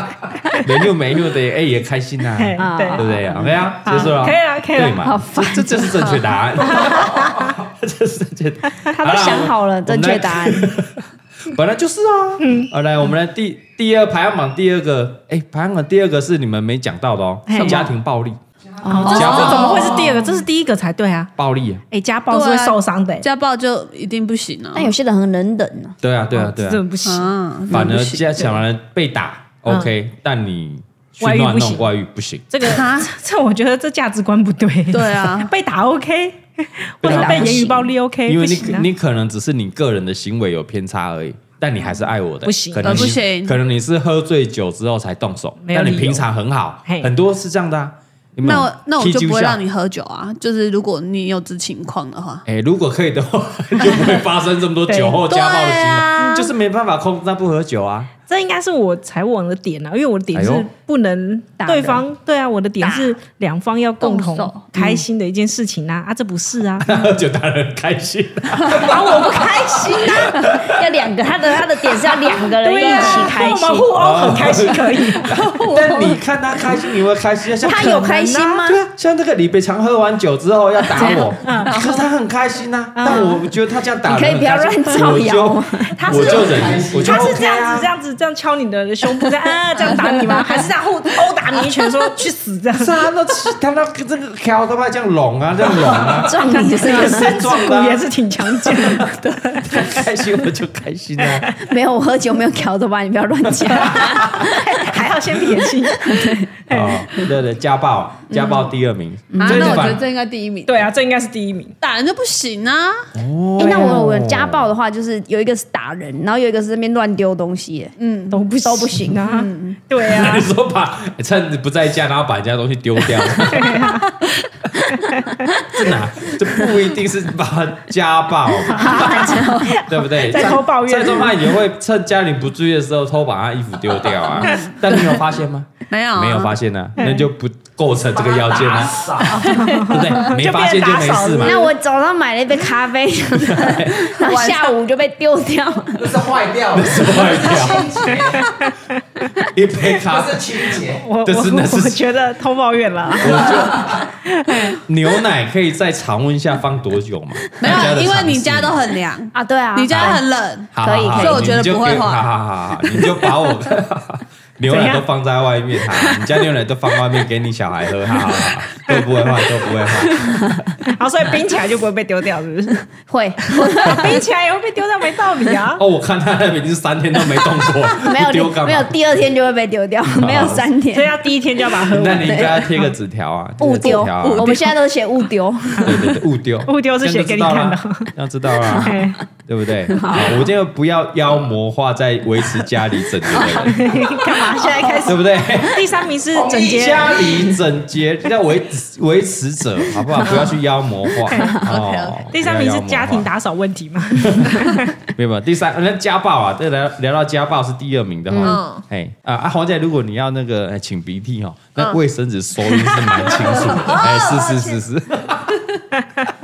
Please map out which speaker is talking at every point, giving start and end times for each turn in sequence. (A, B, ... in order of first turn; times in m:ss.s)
0:00.6-0:18.4 A
0:02.4-0:03.1 B
0:02.6-0:03.6 C
0:03.8-0:05.0 B
0:05.0-0:06.2 C
0:06.6-0:07.6 B
0:09.0-0:10.8 C
0:12.4-0:12.7 B
0:17.5-0:17.9 B
0:18.8-0:20.0 C
0:18.8-0:21.3 B
0:19.0-0:20.2 D
0:19.0-0:20.0 A
0:21.4-0:21.8 A
0:21.9-0:23.2 B
0:22.3-0:24.9 D
0:24.7-0:25.9 C
0:26.0-0:26.8 A
0:26.5-0:27.3 B
0:27.0-0:28.4 D
0:27.7-0:32.5 A
0:29.7-0:29.9 B
0:31.2-0:31.9 B
0:32.5-0:38.9 B
0:32.6-0:33.1 D
0:34.9-0:35.5 D
0:37.0-0:37.6 A
0:37.0-0:37.9 C
0:38.2-0:49.6 A
0:42.4-0:43.2 B
0:42.8-0:43.6 D
0:45.6-0:46.2 B
0:46.8-0:47.1 B
0:48.4-0:52.4 D
0:52.4-0:58.1 A
0:54.9-0:55.6 B
0:55.6-0:56.3 D
0:58.3-1:06.9 B
1:00.3-1:00.7 A
1:01.6-1:02.0 C
1:04.0-1:04.6 D
1:04.7-1:05.0 C
1:06.8-1:10.8 A
1:08.7-1:10.5 B
1:10.3-1:14.0 C
1:12.5-1:15.4 B
1:13.9-1:18.0 A
1:15.3-1:16.1 C
1:17.6-1:18.8 C
1:17.6-1:18.6 B
1:18.6-1:27.9 A
1:20.9-1:21.4 C
1:21.4-1:21.7 B
1:21.7-1:22.0 D
1:23.0-1:23.4 B
1:24.0-1:26.2 C
1:26.0-1:33.0 B
1:26.1-1:27.2 E
1:29.8-1:30.7 C
1:32.8-1:41.5 A
1:35.9-1:37.4 C
1:36.3-1:40.0 B
1:41.6-1:45.0 C
1:43.6-1:44.5 A
1:44.4-1:47.0 B
1:46.0-1:46.5 C
1:46.7-1:50.0 A
1:49.3-1:49.9 C
1:49.4-1:50.9 D
1:50.6-1:51.8 B
1:51.8-1:53.1 D
1:53.1-1:54.7 A
1:53.6-1:57.9 C
1:58.0-1:58.4 D
1:58.3-2:00.5 B
1:58.6-1:59.3 C
1:59.3-1:59.8 D
2:00.0-2:03.9 A
2:03.5-2:04.1 B
2:04.9-2:05.5 B
2:05.6-2:19.2 A
2:08.7-2:11.5 B
2:08.7-2:09.8 C
2:09.0-2:09.6 D
2:14.4-2:15.0 D
2:15.9-2:16.6 D
2:17.0-2:17.2 B
2:18.2-2:19.4 E
2:19.3-2:21.7 B
2:19.8-2:21.6 A
2:21.4-2:26.3 C
2:23.4-2:24.1 A
2:24.2-2:24.7 D
2:26.0-2:28.4 E
2:26.7-2:28.1 A
2:28.2-2:28.7 B
2:29.4-2:32.0 A
2:30.0-2:31.0 E
2:31.0-2:34.8 B
2:33.2-2:34.0 A
2:34.8-2:38.8 A
2:37.6-2:42.3 D
2:39.3-2:40.2 C
2:39.9-2:50.4 A
2:40.8-2:41.6 C
2:42.8-2:43.4 D
2:44.7-2:45.0 B
2:50.1-2:50.7 C
2:50.8-2:52.9 B
2:52.9-2:54.2 C
2:53.5-2:55.8 B
2:55.8-2:58.9 A
2:57.9-3:01.2 C
3:00.1-3:00.7 A
3:00.9-3:02.8 B
3:01.9-3:04.5 A
3:02.2-3:02.7 C
3:03.6-3:06.1 C
3:03.8-3:04.6 D
3:05.8-3:06.0 B
3:05.8-3:14.0 A
3:06.7-3:08.1 B
3:08.8-3:09.2 B
3:09.9-3:10.5 C
3:13.4-3:17.3 B
3:14.8-3:15.1 C
3:15.0-3:15.9 A
3:16.3-3:17.4 E
3:16.6-3:23.3 A
3:20.2-3:20.5 B
3:21.3-3:21.6 B
3:21.6-3:22.3 D
3:22.3-3:24.9 B
3:24.2-3:35.6 A
3:28.3-3:28.6 C
3:28.4-3:28.8 D
3:33.4-3:34.8 D
3:36.0-3:36.2 B